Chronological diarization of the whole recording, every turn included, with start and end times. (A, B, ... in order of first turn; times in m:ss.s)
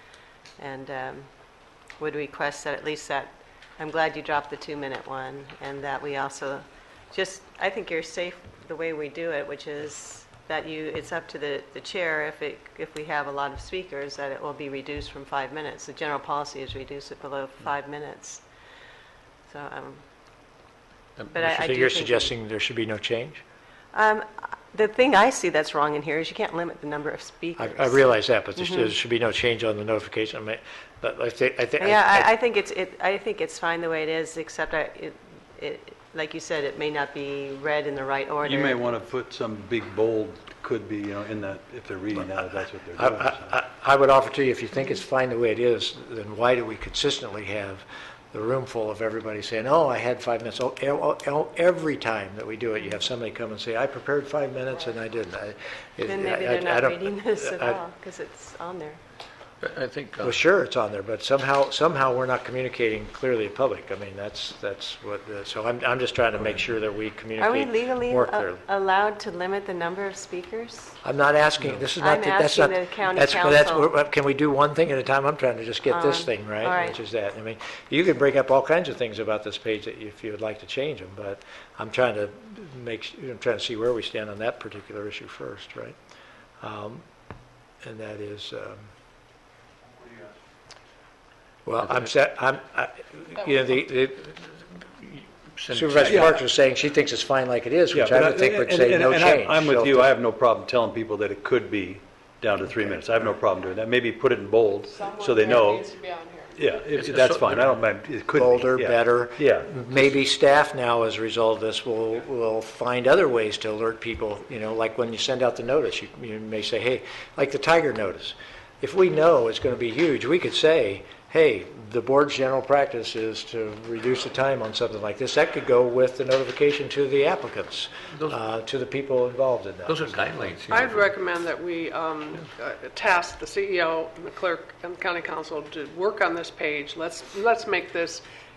0:00.6-0:01.3 A
0:02.0-0:18.4 A
0:19.5-0:20.0 A
0:21.3-0:22.3 A
0:21.3-0:23.4 B
0:23.9-0:28.9 A
0:27.6-0:32.3 B
0:31.8-0:38.9 A
0:38.4-0:43.5 C
0:43.0-0:57.8 B
0:56.0-0:59.0 A
0:59.6-1:00.4 D
1:00.2-1:08.6 B
1:07.4-1:11.0 A
1:11.0-1:26.0 B
1:12.0-1:13.9 A
1:15.9-1:17.0 A
1:26.6-1:27.0 B
1:27.8-1:28.9 B
1:31.6-1:40.1 B
1:35.6-1:36.3 D
1:36.0-1:36.3 C
1:37.9-1:45.9 C
1:44.8-1:46.7 E
1:46.6-1:50.1 C
1:46.9-1:47.8 D
1:48.3-2:10.2 B
2:09.8-2:11.1 D
2:10.7-2:18.2 E